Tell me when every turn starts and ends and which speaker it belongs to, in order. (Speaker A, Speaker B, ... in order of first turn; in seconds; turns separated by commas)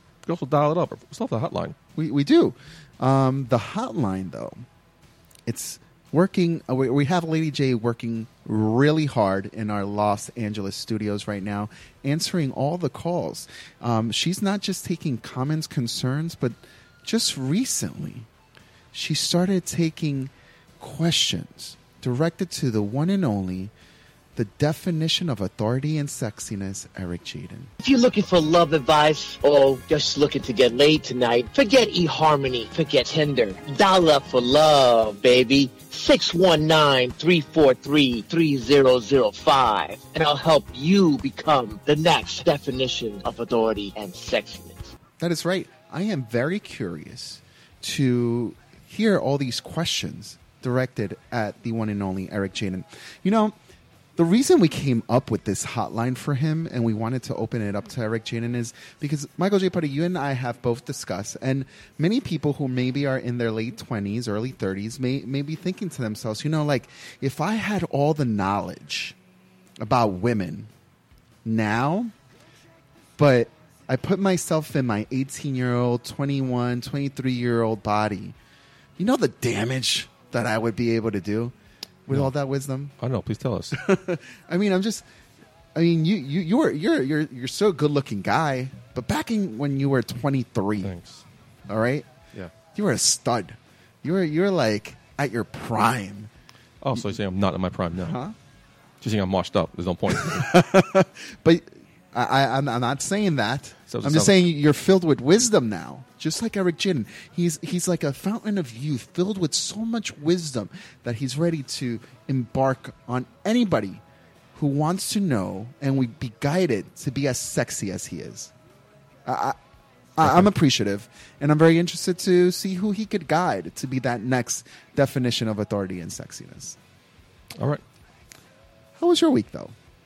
Speaker A: 0.2-1.8, Speaker B: 2.0-4.6, Speaker B: 5.5-18.3, Speaker B: 18.9-23.7, Speaker B: 24.4-27.7, Speaker C: 27.8-44.9, Speaker B: 45.2-53.6, Speaker B: 54.2-69.2, Speaker B: 69.8-70.7, Speaker B: 71.4-72.1, Speaker B: 73.2-78.4, Speaker B: 79.0-81.5, Speaker B: 82.1-82.9, Speaker A: 83.0-83.8, Speaker B: 83.7-85.1, Speaker B: 85.8-90.9, Speaker A: 90.8-91.2, Speaker B: 91.7-92.1, Speaker B: 92.8-96.3, Speaker A: 96.8-98.2, Speaker B: 98.0-98.4, Speaker A: 99.0-100.6, Speaker B: 100.1-114.0, Speaker A: 103.9-104.4, Speaker B: 114.5-118.5, Speaker B: 119.3-119.6, Speaker B: 120.2-126.8, Speaker A: 120.2-120.5, Speaker A: 127.6-127.8, Speaker B: 129.0-129.8